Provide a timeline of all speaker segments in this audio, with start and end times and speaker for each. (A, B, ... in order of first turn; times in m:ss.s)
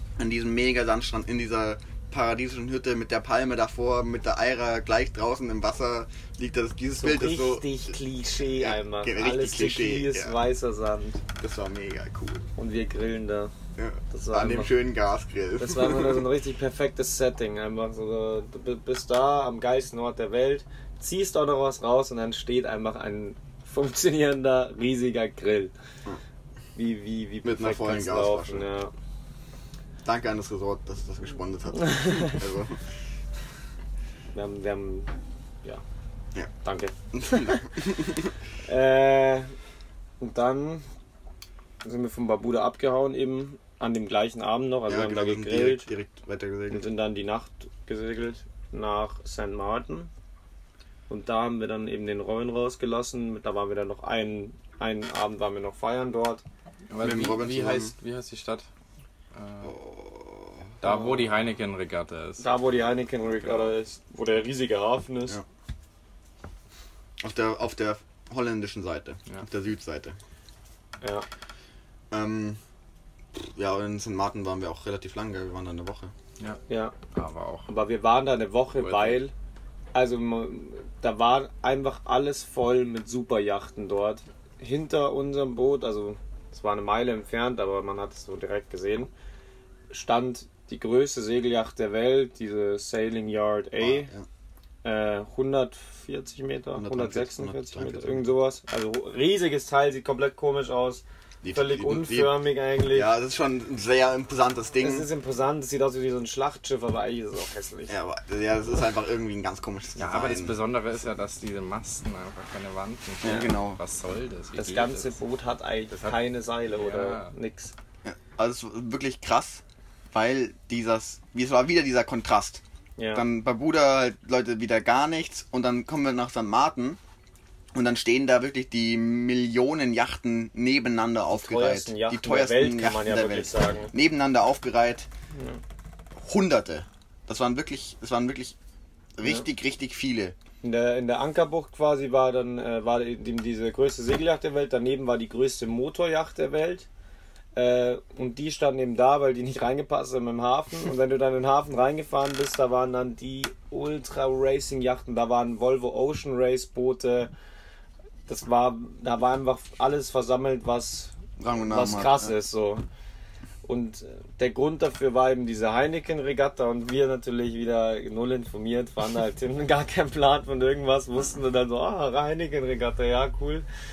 0:00.2-0:07.9 A
0:07.0-0:11.2 B
0:08.6-0:10.4 A
0:11.4-0:12.4 A
0:12.6-0:13.5 B
0:13.8-0:16.2 A
0:14.1-0:14.7 B
0:15.6-0:25.7 B
0:26.8-0:28.9 B
0:27.4-0:28.7 A
0:30.0-0:32.8 A
0:34.3-0:35.8 B
0:36.6-0:37.6 B
0:37.1-0:38.3 A
0:38.6-0:39.5 B
0:40.2-0:40.9 B
0:41.8-0:45.9 B
0:44.9-0:46.8 A
0:46.7-0:50.1 B
0:51.1-0:56.4 B
0:56.9-0:58.7 C
0:57.0-0:57.9 A
0:59.3-0:59.8 C
0:59.6-1:00.7 A
1:00.8-1:02.4 C
1:02.4-1:05.4 B
1:03.4-1:03.7 C
1:07.2-1:10.2 A
1:11.0-1:11.2 B
1:12.1-1:12.6 A
1:13.3-1:16.1 A
1:16.4-1:17.7 C
1:16.7-1:16.9 B
1:17.7-1:19.3 B
1:18.8-1:19.2 C
1:19.9-1:29.1 B
1:29.9-1:34.1 B
1:33.8-1:34.2 A
1:34.8-1:43.1 B
1:36.8-1:38.3 A
1:41.4-1:42.4 A
1:42.9-1:45.1 A
1:44.8-1:47.9 B
1:47.9-1:50.6 A
1:50.0-1:55.1 C
1:53.2-1:53.8 A
1:54.6-1:57.7 B
1:55.9-1:57.3 C
1:58.0-2:02.6 A
2:03.0-2:03.3 B
2:03.1-2:07.0 A
2:07.7-2:15.1 A
2:11.3-2:13.9 B
2:15.4-2:15.6 B
2:16.2-2:18.6 A
2:19.2-2:20.4 A
2:20.6-2:26.9 B
2:27.5-2:37.3 B
2:38.3-2:42.8 B
2:41.4-2:42.3 A
2:43.6-2:53.6 B